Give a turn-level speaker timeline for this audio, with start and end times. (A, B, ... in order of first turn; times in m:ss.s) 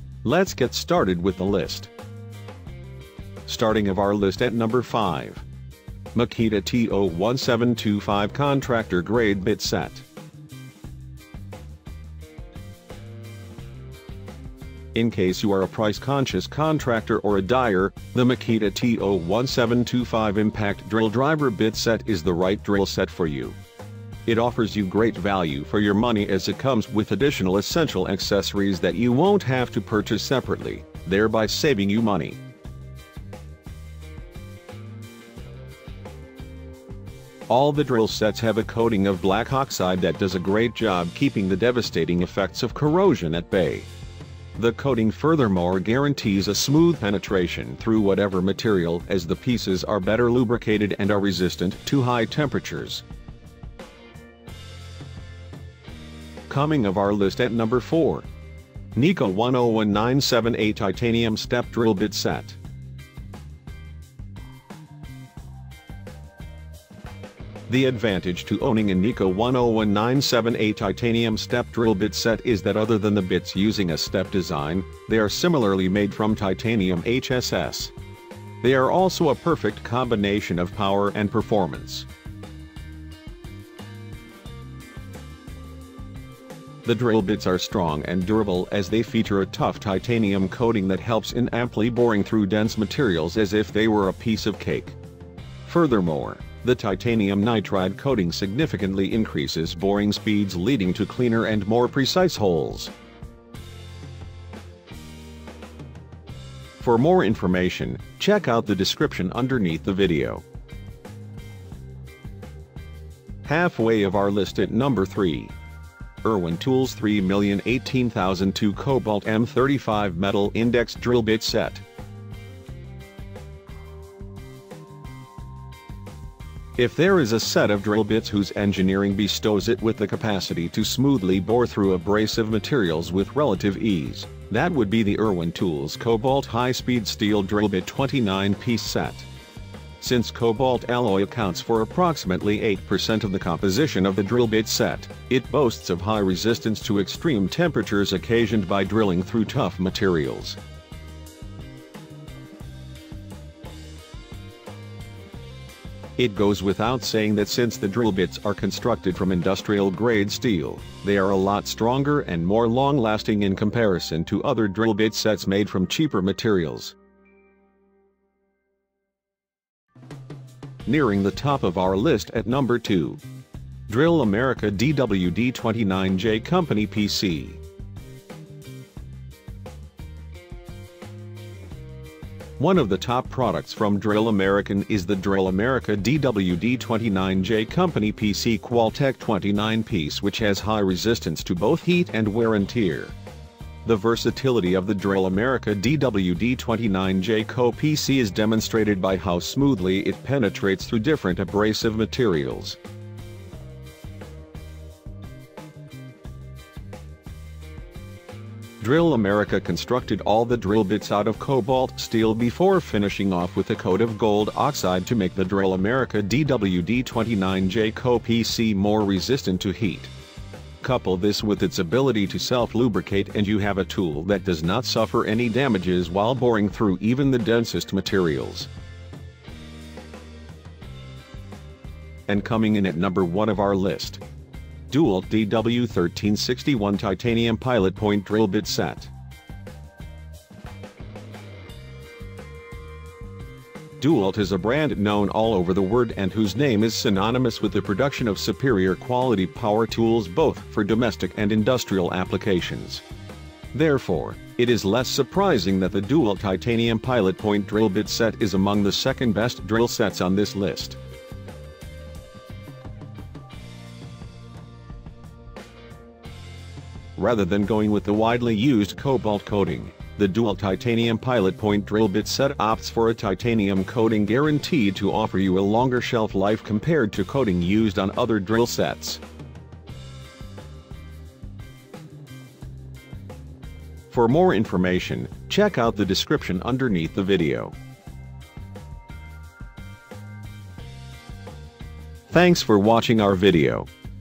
0:00.2-0:01.9 A
0:03.4-0:05.4 A
0:06.1-0:10.0 A
0:14.9-0:23.6 A
0:24.2-0:32.4 A
0:37.5-0:43.9 A
0:44.6-0:53.0 A
0:56.5-0:58.3 A
0:58.9-1:02.6 A
1:07.7-1:17.9 A
1:18.6-1:22.1 A
1:26.8-1:35.0 A
1:35.6-1:42.9 A
1:46.8-1:50.4 A
1:53.4-1:55.6 A
1:56.2-2:01.8 A
2:06.8-2:19.3 A
2:20.0-2:30.6 A
2:36.2-2:47.0 A
2:50.8-2:53.2 A
2:53.9-2:57.6 A
3:02.6-3:13.2 A
3:13.8-3:22.8 A
3:28.8-3:40.1 A
3:40.8-3:48.7 A
3:52.3-3:54.2 A
3:54.9-3:59.1 A
4:04.0-4:13.0 A
4:13.7-4:21.0 A
4:27.2-4:39.2 A
4:44.1-4:47.7 A
4:52.3-4:53.9 A